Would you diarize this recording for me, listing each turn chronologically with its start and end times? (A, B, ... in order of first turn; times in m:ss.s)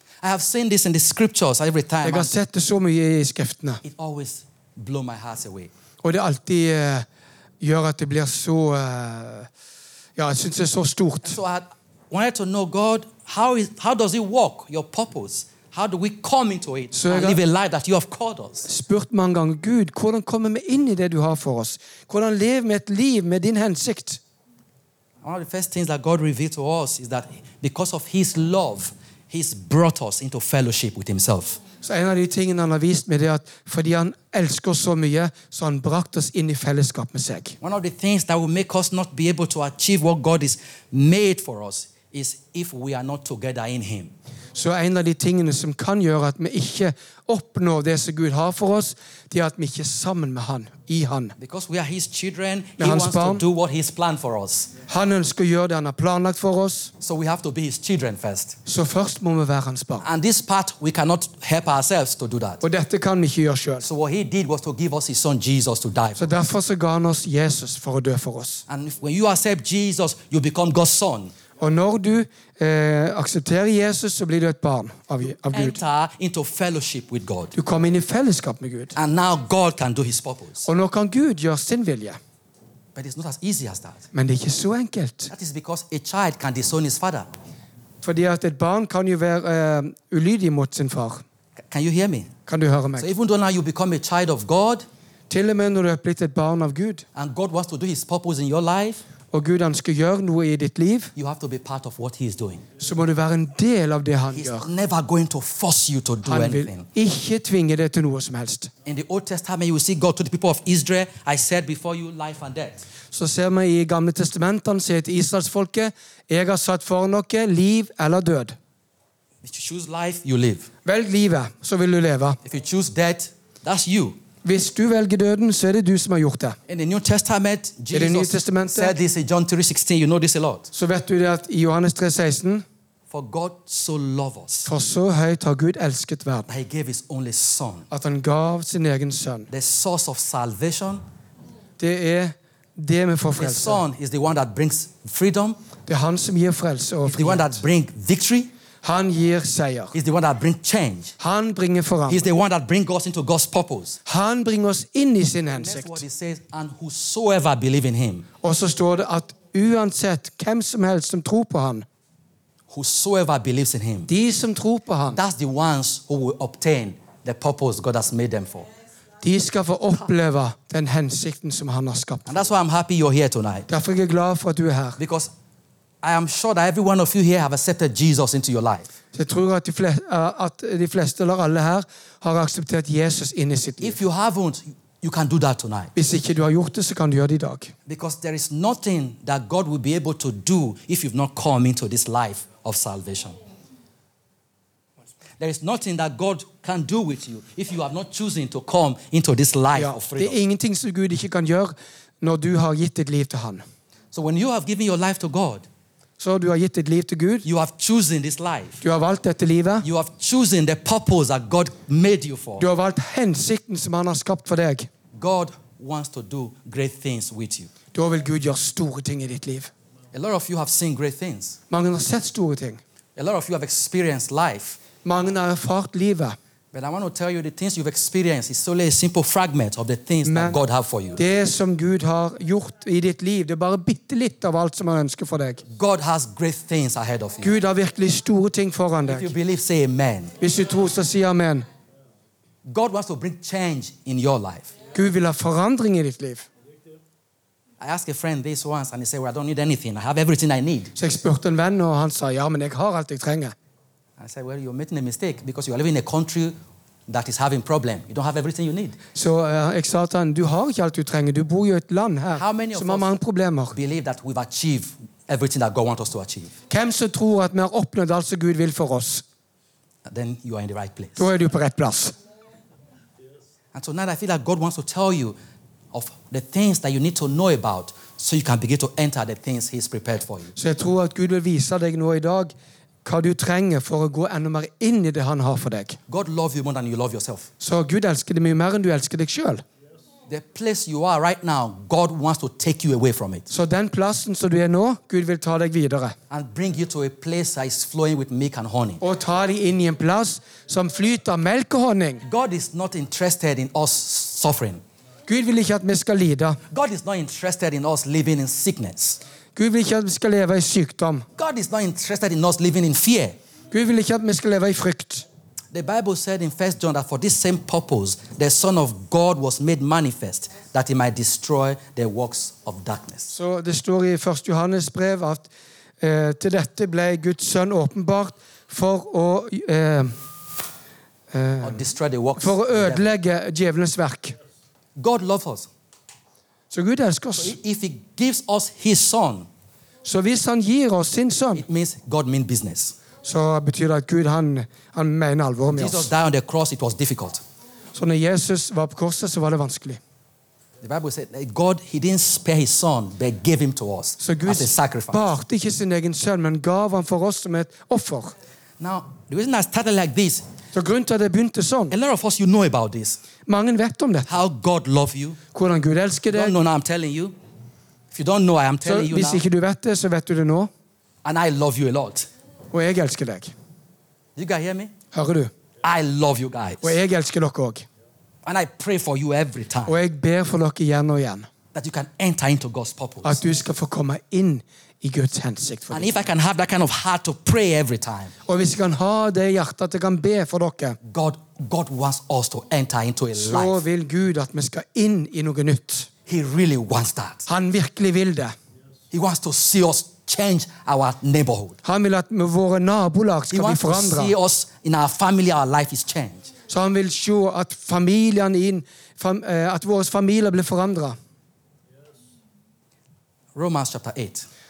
0:00.2-0:02.3 A
0:02.0-0:03.8 B
0:03.8-0:05.7 A
0:06.0-0:07.0 B
0:07.6-0:09.5 B
0:10.2-0:11.4 B
0:11.2-0:18.7 A
0:16.9-0:17.4 B
0:18.7-0:24.2 B
0:25.2-0:31.6 A
0:31.8-0:37.6 B
0:37.6-0:44.1 A
0:44.5-0:51.4 B
0:51.4-0:54.7 A
0:52.8-0:53.4 B
0:54.9-0:56.9 B
0:57.0-0:58.6 A
0:58.6-1:00.0 B
1:00.0-1:02.6 A
1:02.6-1:03.9 B
1:03.8-1:06.3 A
1:06.2-1:08.6 B
1:08.7-1:11.3 A
1:11.6-1:15.8 B
1:15.2-1:17.5 A
1:17.5-1:18.9 B
1:18.9-1:20.7 A
1:20.6-1:22.2 B
1:22.9-1:24.0 A
1:24.1-1:25.3 B
1:25.3-1:27.3 A
1:28.0-1:31.2 B
1:31.6-1:32.3 A
1:32.5-1:33.1 B
1:33.0-1:34.8 A
1:35.3-1:37.0 B
1:37.1-1:39.0 A
1:39.3-1:41.1 B
1:41.2-1:42.6 A
1:42.8-1:44.7 B
1:44.3-1:46.9 A
1:46.2-1:48.7 B
1:48.8-1:52.8 A
1:53.1-1:58.6 B
1:59.4-2:00.7 A
2:00.8-2:02.4 B
2:02.4-2:04.2 A
2:04.4-2:06.6 B
2:06.7-2:10.7 A
2:07.9-2:09.0 B
2:10.7-2:12.6 B
2:13.1-2:14.7 A
2:14.6-2:16.5 B
2:16.5-2:17.9 A
2:17.9-2:19.5 B
2:19.5-2:21.0 A
2:21.8-2:23.8 B
2:23.4-2:25.6 A
2:25.8-2:27.6 B
2:27.0-2:28.5 A
2:28.8-2:29.9 B
2:29.9-2:31.1 A
2:31.2-2:32.2 B
2:32.1-2:34.0 A
2:34.0-2:36.0 B
2:35.5-2:38.3 A
2:38.4-2:41.8 B
2:42.7-2:44.1 A
2:44.1-2:45.2 B
2:45.1-2:48.7 A
2:49.2-2:52.4 B
2:52.2-2:53.7 A
2:53.7-2:55.0 B
2:55.0-2:55.3 A
2:56.0-2:58.9 A
2:59.1-3:04.0 B
3:03.8-3:05.9 A
3:05.9-3:07.7 B
3:07.9-3:13.4 A
3:15.4-3:20.4 A
3:19.7-3:23.6 B
3:24.1-3:25.6 A
3:26.2-3:27.4 B
3:27.4-3:28.8 A
3:28.8-3:29.9 B
3:29.8-3:32.6 A
3:32.6-3:34.9 B
3:35.1-3:37.7 A
3:37.9-3:39.7 B
3:40.1-3:41.6 A
3:41.7-3:42.8 B
3:43.2-3:44.8 A
3:45.0-3:46.4 B
3:46.7-3:51.2 A
3:50.2-3:50.6 B
3:51.2-3:55.6 B
3:55.7-3:57.5 A
3:57.4-3:59.3 B
3:59.0-4:00.3 A
4:00.4-4:01.6 B
4:02.6-4:04.7 A
4:04.9-4:06.4 B
4:07.8-4:10.9 A
4:11.0-4:13.5 B
4:14.2-4:19.0 A
4:19.1-4:23.8 B
4:22.3-4:23.2 A
4:23.7-4:26.5 A
4:26.7-4:29.2 B
4:30.0-4:31.2 A
4:31.2-4:32.1 B
4:33.7-4:35.4 A
4:35.9-4:40.5 A
4:40.6-4:42.5 B
4:43.0-4:46.0 B
4:46.1-4:47.5 A
4:47.6-4:49.6 B
4:50.3-4:53.5 A
4:53.5-4:56.1 B
4:56.3-4:59.0 A
4:59.0-5:02.2 B
5:02.2-5:04.8 A
5:05.3-5:06.6 B
5:06.7-5:09.2 A
5:09.6-5:11.2 B
5:11.4-5:13.4 A
5:13.7-5:15.2 B
5:15.7-5:23.3 A
5:23.3-5:25.5 B
5:26.0-5:30.2 B
5:31.3-5:31.8 B
5:31.6-5:33.0 A
5:32.4-5:34.4 B
5:35.0-5:35.7 A
5:36.7-5:37.6 B
5:37.4-5:39.5 A
5:40.0-5:41.6 B
5:41.5-5:43.0 A
5:43.2-5:46.1 B
5:45.7-5:47.4 A
5:47.9-5:50.0 B
5:50.8-5:55.3 A
5:54.2-5:58.3 B
5:58.8-6:00.4 A
6:00.7-6:01.9 B
6:01.9-6:03.2 A
6:03.4-6:04.3 B
6:04.3-6:05.4 A
6:05.5-6:06.5 B
6:06.3-6:07.3 A
6:08.1-6:09.4 A
6:08.8-6:10.7 B
6:11.2-6:12.3 A
6:12.7-6:13.5 B
6:14.4-6:14.9 A
6:15.1-6:15.5 B
6:15.8-6:17.0 A
6:16.8-6:17.8 B
6:18.4-6:20.0 A
6:19.9-6:21.5 B
6:21.7-6:23.4 A
6:23.2-6:26.2 B
6:25.9-6:28.3 A
6:28.4-6:31.0 B
6:31.0-6:33.8 A
6:33.4-6:36.1 B
6:36.3-6:37.4 A
6:37.4-6:38.5 B
6:39.1-6:41.8 A
6:41.8-6:44.3 B
6:43.5-6:46.5 A
6:46.7-6:51.2 B
6:53.5-6:54.4 A